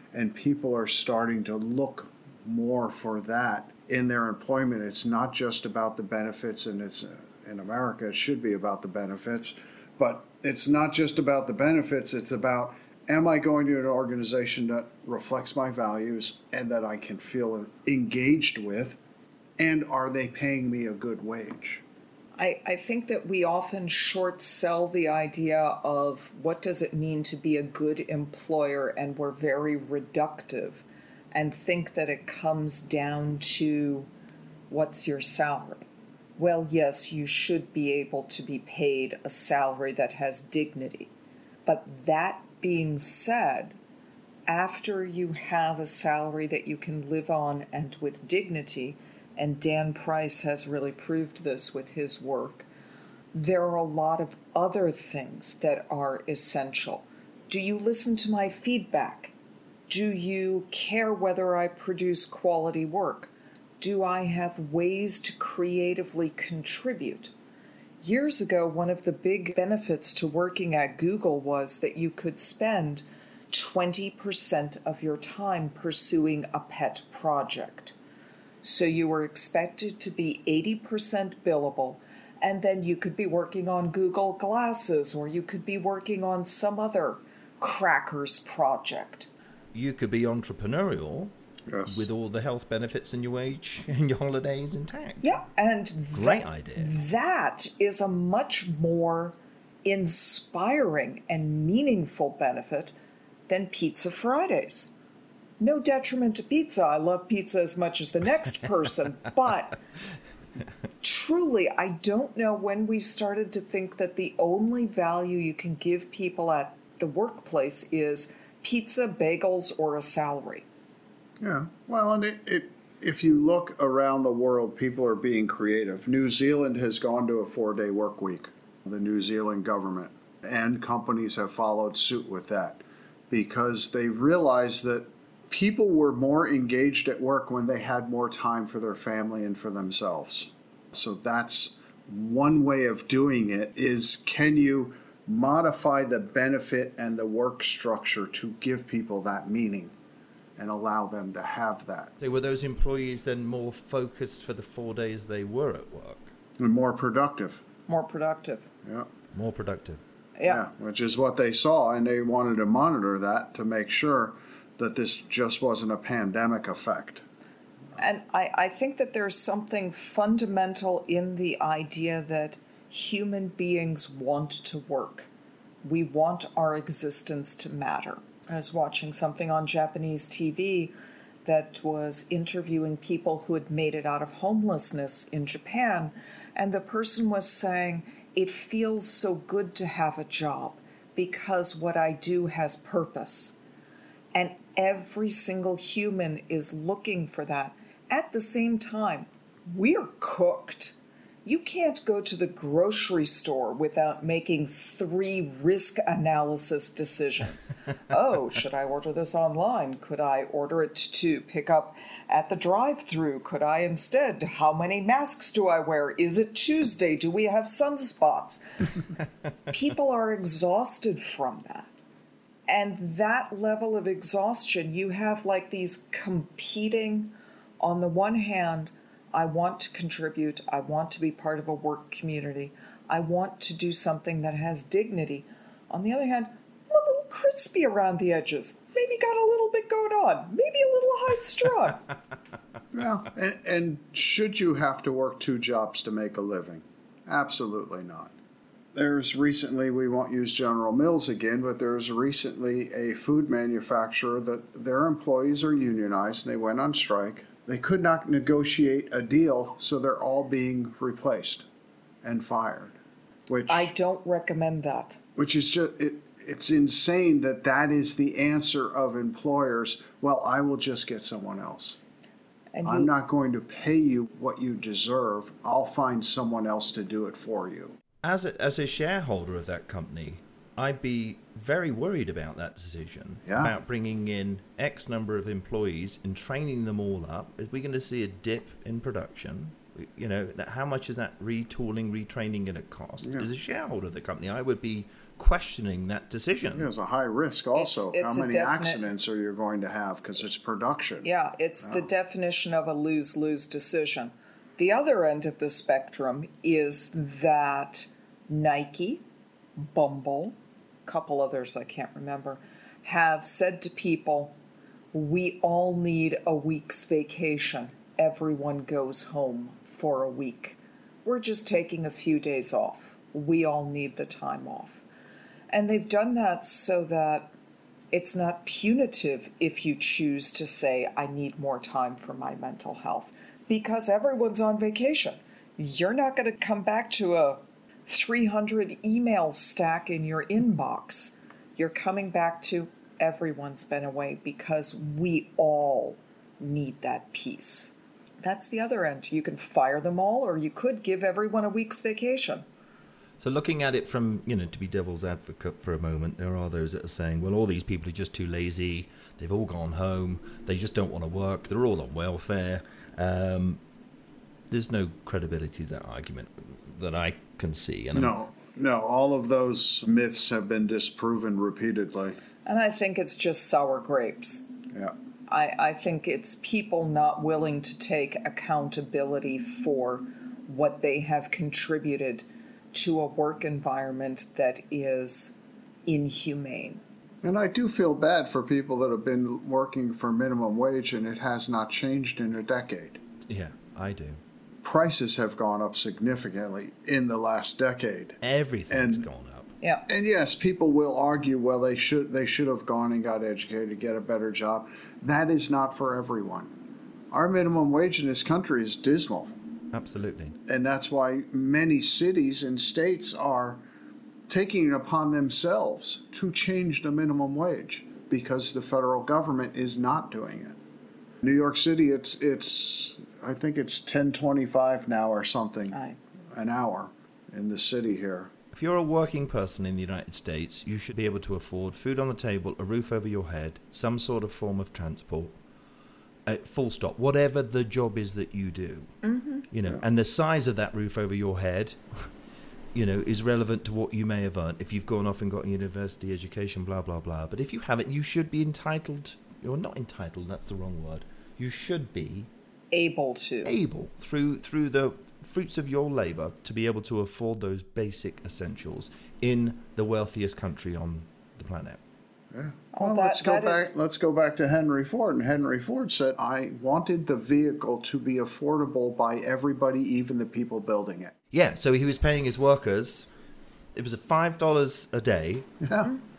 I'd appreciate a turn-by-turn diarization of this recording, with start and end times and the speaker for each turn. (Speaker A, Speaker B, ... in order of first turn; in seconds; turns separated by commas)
Speaker A: 0.1-19.0, Speaker A: 19.6-21.8, Speaker B: 22.4-34.1, Speaker B: 34.7-41.1, Speaker B: 41.7-43.8, Speaker B: 44.5-52.7, Speaker B: 53.3-59.3, Speaker B: 59.9-67.3, Speaker B: 68.0-77.9, Speaker B: 78.6-89.3, Speaker C: 89.7-91.3, Speaker A: 91.7-92.1, Speaker C: 91.9-95.4, Speaker B: 95.2-103.0, Speaker C: 96.1-96.9, Speaker B: 103.5-104.9, Speaker B: 105.6-109.8, Speaker B: 111.0-120.7, Speaker A: 121.4-149.9, Speaker A: 150.6-152.2, Speaker C: 152.2-156.3, Speaker A: 156.6-157.6, Speaker B: 157.9-158.7, Speaker A: 158.8-159.1, Speaker C: 159.3-160.0, Speaker B: 160.4-160.6, Speaker A: 160.5-167.2, Speaker B: 168.0-175.3, Speaker B: 175.8-180.9, Speaker B: 181.4-193.6, Speaker B: 194.3-219.1, Speaker B: 219.7-221.9, Speaker B: 222.7-242.1, Speaker A: 242.9-248.3, Speaker A: 248.9-261.7, Speaker A: 262.2-262.9, Speaker A: 263.5-263.9, Speaker B: 263.7-265.2, Speaker A: 265.4-272.0, Speaker B: 272.7-273.1, Speaker A: 272.9-277.9, Speaker C: 278.2-296.9, Speaker A: 283.5-283.7, Speaker A: 293.2-293.5, Speaker A: 296.7-301.3, Speaker B: 297.8-299.1, Speaker B: 301.2-309.2, Speaker B: 309.8-314.6, Speaker B: 315.1-325.0, Speaker B: 325.7-327.5, Speaker B: 328.1-352.6, Speaker C: 353.4-363.8, Speaker C: 364.7-368.3, Speaker A: 368.1-372.4, Speaker B: 372.6-374.8, Speaker B: 375.5-387.0, Speaker A: 387.4-393.2, Speaker C: 393.5-394.4, Speaker A: 394.8-398.4, Speaker C: 398.4-399.7, Speaker A: 398.9-399.3, Speaker B: 399.8-400.1, Speaker A: 400.1-406.7, Speaker A: 407.3-409.5, Speaker C: 409.9-410.6, Speaker A: 410.7-413.8, Speaker A: 414.5-420.8, Speaker A: 421.4-426.0, Speaker B: 425.9-426.2, Speaker A: 426.5-428.5, Speaker C: 428.7-435.5, Speaker C: 436.5-439.1, Speaker B: 439.2-439.7, Speaker C: 439.7-442.3, Speaker C: 442.9-452.5, Speaker B: 452.9-453.8, Speaker C: 453.6-462.0, Speaker A: 462.5-471.4, Speaker B: 462.9-463.9, Speaker C: 471.5-473.3, Speaker C: 473.9-475.7, Speaker A: 475.8-476.1